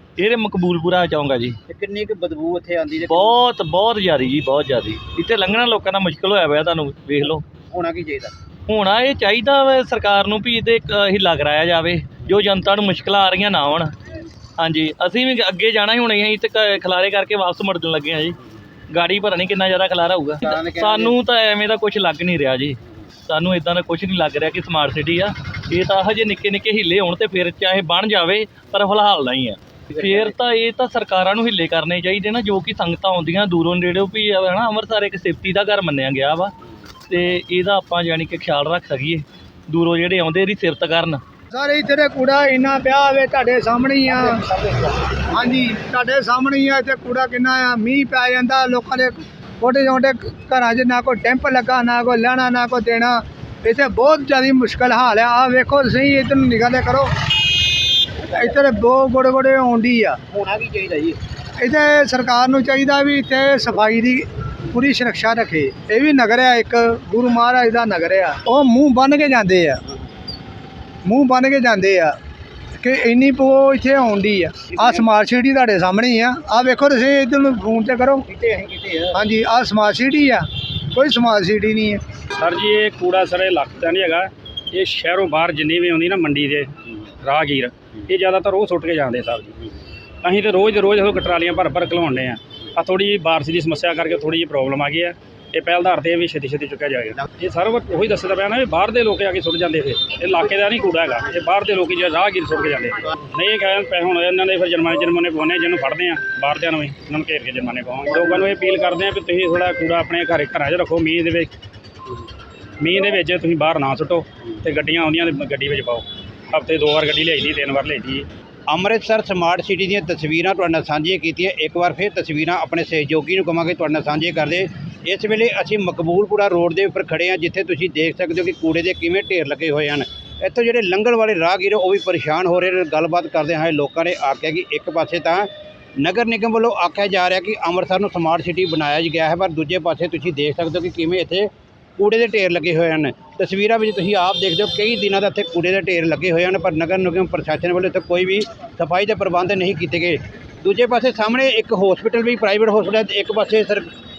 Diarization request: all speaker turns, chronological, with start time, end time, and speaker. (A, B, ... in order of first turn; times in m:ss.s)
0:00.2-0:01.6 A
0:01.7-0:03.4 B
0:03.1-0:07.4 A
0:07.7-0:08.3 B
0:08.7-0:13.9 A
0:14.6-0:18.4 A
0:18.9-0:36.5 A
0:20.4-0:21.2 B
0:37.1-0:41.2 A
0:41.5-0:44.6 C
0:45.3-0:57.1 C
0:58.4-1:00.2 C
1:00.3-1:01.2 B
1:01.6-1:09.8 C
1:11.0-1:12.2 C
1:12.8-1:18.3 C
1:18.3-1:19.2 B
1:19.1-1:22.0 C
1:22.4-1:26.7 D
1:27.2-1:29.6 D
1:30.2-1:51.5 D
1:52.8-1:58.3 D
1:58.7-2:15.5 B
2:16.0-2:33.9 B